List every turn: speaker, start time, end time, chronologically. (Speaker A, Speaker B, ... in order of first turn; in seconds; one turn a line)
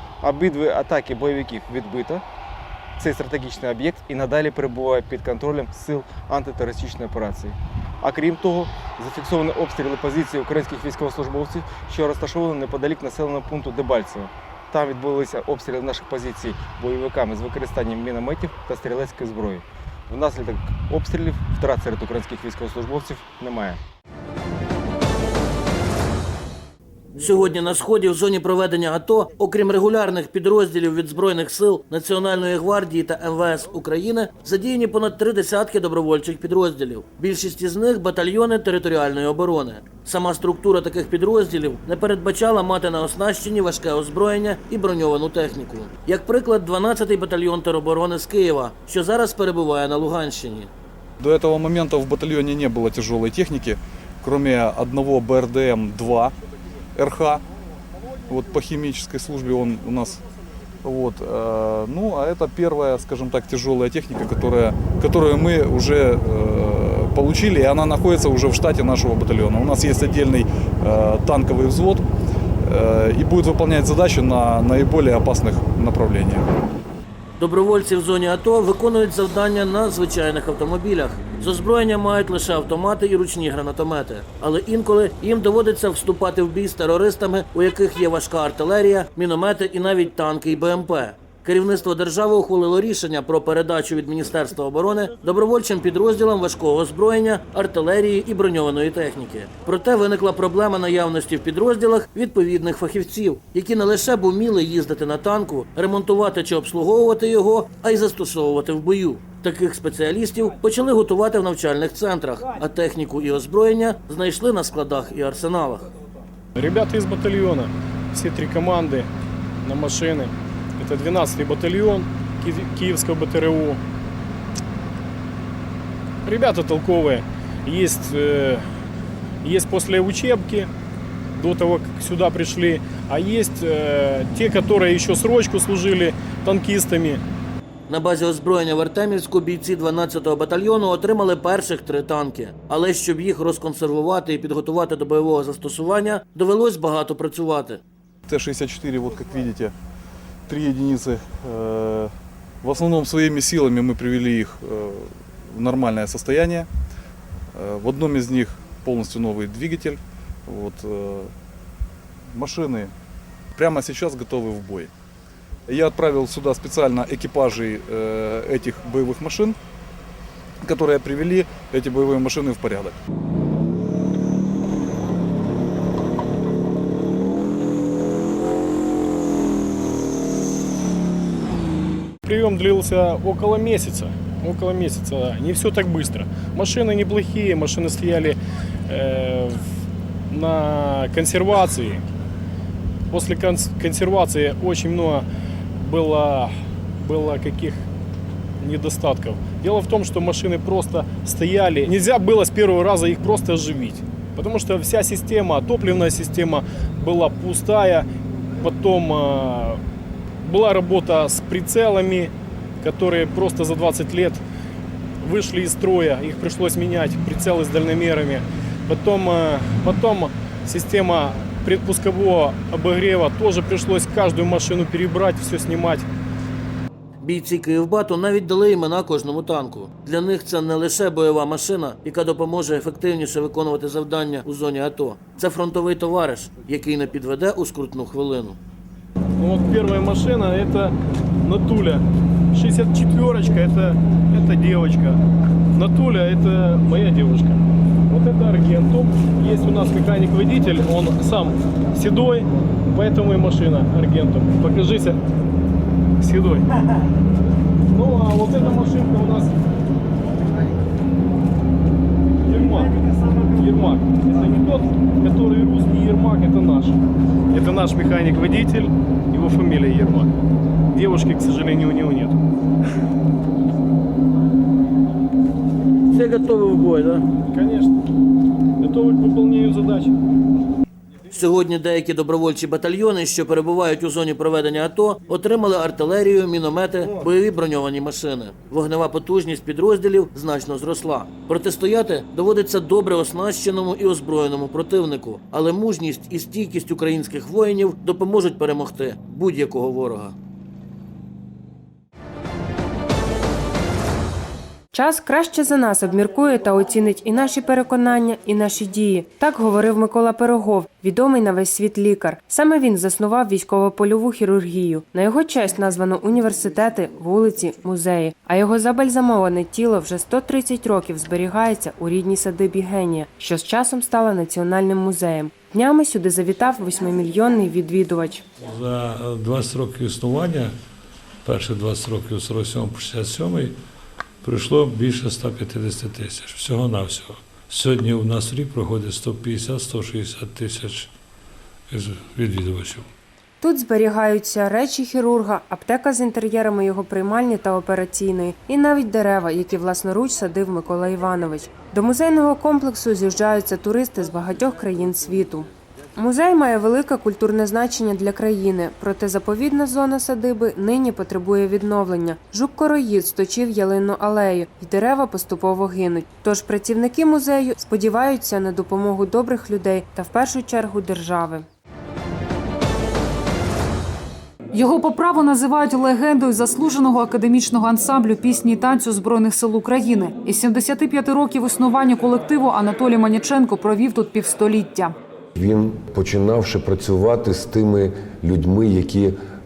Speaker A: 0.2-2.2
Speaker A: 3.0-23.8
Speaker B: 27.1-50.7
Speaker C: 51.2-56.3
Speaker C: 56.9-57.4
Speaker C: 58.3-60.2
Speaker C: 60.8-72.0
Speaker C: 72.6-76.5
Speaker B: 77.4-115.9
Speaker D: 116.5-119.1
Speaker D: 119.6-123.8
Speaker D: 126.2-128.6
Speaker D: 129.4-130.7
Speaker D: 131.4-137.2
Speaker B: 137.9-147.8
Speaker C: 148.3-149.7
Speaker C: 150.5-156.7
Speaker C: 157.5-161.3
Speaker C: 162.3-162.9
Speaker C: 163.5-164.9
Speaker C: 165.7-169.6
Speaker C: 170.6-173.0
Speaker D: 182.2-188.4
Speaker D: 188.9-189.6
Speaker D: 190.3-192.0
Speaker D: 193.1-195.2
Speaker D: 195.8-197.8
Speaker D: 198.6-208.1
Speaker D: 208.6-209.8
Speaker D: 210.4-214.4
Speaker D: 215.2-226.1
Speaker B: 227.2-238.6
Speaker D: 239.4-245.2
Speaker D: 245.7-255.2
Speaker D: 256.2-256.6
Speaker D: 257.9-259.5
Speaker D: 262.4-262.9
Speaker D: 263.5-267.0
Speaker D: 267.5-270.3
Speaker D: 270.9-272.4
Speaker B: 276.1-277.3
Speaker D: 277.5-277.9
Speaker D: 278.8-280.1
Speaker B: 281.3-300.3
Speaker E: 304.9-328.4
Speaker F: 328.7-330.7
Speaker F: 331.4-333.7
Speaker F: 334.4-341.1
Speaker F: 341.9-343.1
Speaker E: 343.6-371.6
Speaker G: 374.7-385.1
Speaker H: 385.6-389.4